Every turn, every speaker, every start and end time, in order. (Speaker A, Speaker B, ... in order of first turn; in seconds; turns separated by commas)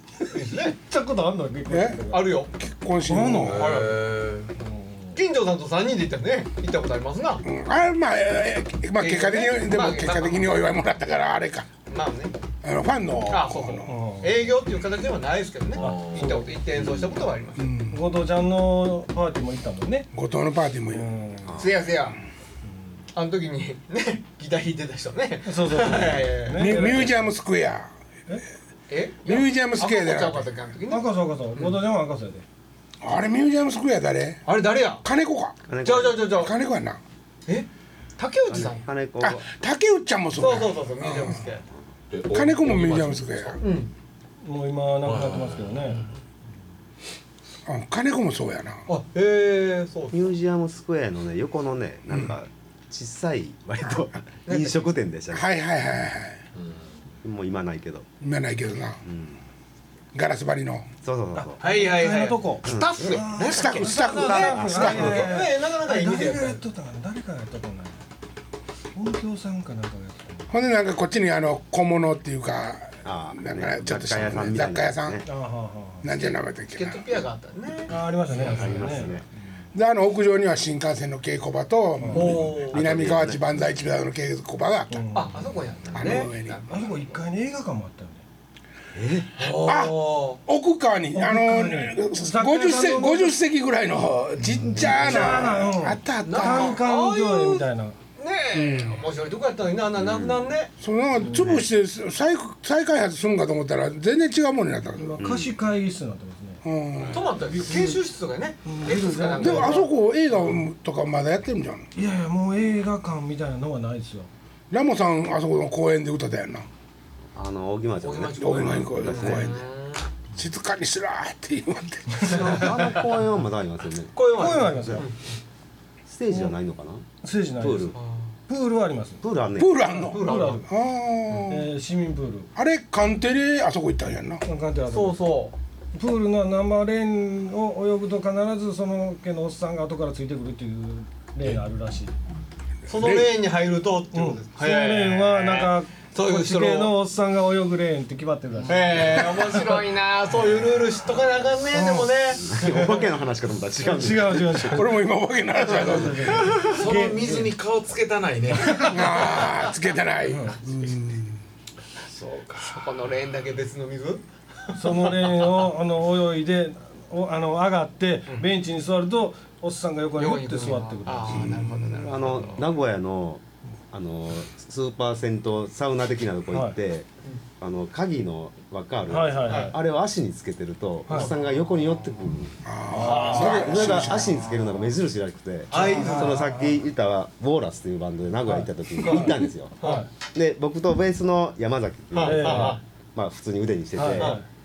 Speaker A: 0.3-0.8, Speaker B: 0.7-2.4, Speaker C: 1.7-2.0, Speaker A: 2.1-2.5, Speaker C: 2.6-3.8, Speaker B: 3.0-3.6, Speaker D: 3.5-4.5, Speaker A: 3.5-4.1, Speaker B: 4.6-5.2, Speaker A: 5.2-7.4, Speaker C: 7.4-11.7, Speaker A: 9.0-10.5, Speaker A: 11.8-12.3, Speaker C: 12.6-13.9, Speaker A: 13.3-17.7, Speaker B: 13.8-14.4, Speaker B: 15.8-16.5, Speaker D: 15.8-16.4, Speaker C: 17.6-18.0, Speaker B: 17.9-20.1, Speaker C: 20.1-21.1, Speaker B: 20.9-21.6, Speaker A: 21.6-22.2, Speaker A: 23.1-26.7, Speaker B: 25.4-27.3, Speaker C: 26.6-27.9, Speaker A: 28.9-31.1, Speaker C: 29.2-30.5, Speaker B: 30.9-32.4, Speaker C: 33.0-34.4, Speaker A: 34.5-35.0, Speaker C: 35.0-35.6, Speaker E: 35.7-36.3, Speaker A: 35.8-36.5, Speaker C: 36.3-37.0, Speaker A: 37.5-38.8, Speaker E: 38.5-39.5, Speaker C: 39.2-41.4, Speaker A: 40.4-41.6, Speaker D: 42.1-43.6, Speaker C: 42.3-43.6, Speaker A: 43.6-43.9, Speaker B: 44.4-46.1, Speaker D: 45.0-46.1, Speaker C: 47.6-48.8, Speaker A: 48.9-50.2, Speaker E: 50.1-55.5, Speaker A: 54.5-54.9, Speaker C: 55.3-56.4, Speaker D: 56.5-57.0, Speaker E: 57.2-58.1, Speaker C: 58.2-59.0, Speaker E: 59.0-59.4, Speaker C: 60.1-60.9, Speaker E: 61.0-61.6, Speaker B: 61.4-68.0, Speaker A: 61.6-66.6, Speaker E: 62.6-63.2, Speaker C: 63.5-65.2, Speaker E: 64.1-65.3, Speaker B: 68.9-70.5, Speaker C: 70.5-75.2, Speaker E: 73.0-75.2, Speaker B: 75.2-76.1, Speaker C: 76.0-77.1, Speaker A: 76.7-77.9, Speaker B: 77.9-79.2, Speaker E: 78.4-79.2, Speaker C: 79.7-85.0, Speaker B: 82.0-82.3, Speaker A: 82.1-82.8, Speaker E: 82.3-83.4, Speaker B: 84.9-85.5, Speaker A: 85.1-86.8, Speaker C: 85.9-86.6, Speaker B: 86.7-88.2, Speaker E: 88.9-89.3, Speaker A: 89.4-90.4, Speaker C: 89.6-96.8, Speaker B: 91.1-93.3, Speaker B: 94.6-98.0, Speaker A: 96.2-97.7, Speaker A: 98.2-100.7, Speaker C: 98.5-99.0, Speaker E: 100.0-100.5, Speaker C: 100.8-105.2, Speaker B: 101.2-101.6, Speaker B: 105.0-106.6, Speaker E: 105.2-105.5, Speaker C: 106.6-107.3, Speaker A: 107.1-109.9, Speaker B: 107.5-108.0, Speaker B: 108.7-109.9, Speaker C: 109.3-111.9, Speaker B: 111.9-114.3, Speaker C: 114.7-116.7, Speaker E: 117.3-119.5, Speaker A: 118.0-120.1, Speaker C: 118.4-119.6, Speaker C: 120.3-122.6, Speaker E: 122.2-125.0, Speaker A: 122.4-122.9, Speaker A: 124.1-125.2, Speaker B: 124.3-125.1, Speaker E: 126.0-127.0, Speaker B: 127.2-128.0, Speaker E: 127.6-127.9, Speaker A: 127.9-128.3, Speaker B: 128.5-129.2, Speaker E: 129.2-129.8, Speaker C: 129.6-131.7, Speaker B: 129.9-130.7, Speaker A: 130.1-130.6, Speaker B: 131.5-132.5, Speaker C: 132.6-134.4, Speaker B: 134.4-135.2, Speaker A: 134.8-135.5, Speaker B: 135.9-142.1, Speaker A: 142.9-146.9, Speaker C: 142.9-143.3, Speaker B: 144.1-149.8, Speaker A: 148.7-153.0, Speaker B: 151.7-152.1, Speaker E: 152.4-155.0, Speaker B: 153.8-155.1, Speaker C: 154.7-156.5, Speaker B: 155.6-157.5, Speaker A: 156.4-156.8, Speaker D: 156.6-159.3, Speaker C: 158.8-161.4, Speaker B: 160.3-160.6, Speaker D: 162.1-162.8, Speaker A: 162.6-165.5, Speaker B: 164.8-171.7, Speaker A: 170.2-172.7, Speaker E: 171.3-177.1, Speaker B: 176.5-176.8, Speaker E: 177.6-182.6, Speaker B: 179.1-179.7, Speaker A: 179.5-179.7, Speaker B: 181.1-181.3, Speaker C: 182.6-184.3, Speaker B: 182.9-184.4, Speaker A: 183.0-183.8, Speaker E: 183.2-194.4, Speaker A: 185.7-186.5, Speaker B: 185.7-186.7, Speaker B: 189.0-190.1, Speaker A: 189.0-190.1, Speaker A: 192.1-192.8, Speaker B: 192.2-192.8, Speaker B: 193.9-194.4, Speaker A: 194.2-194.4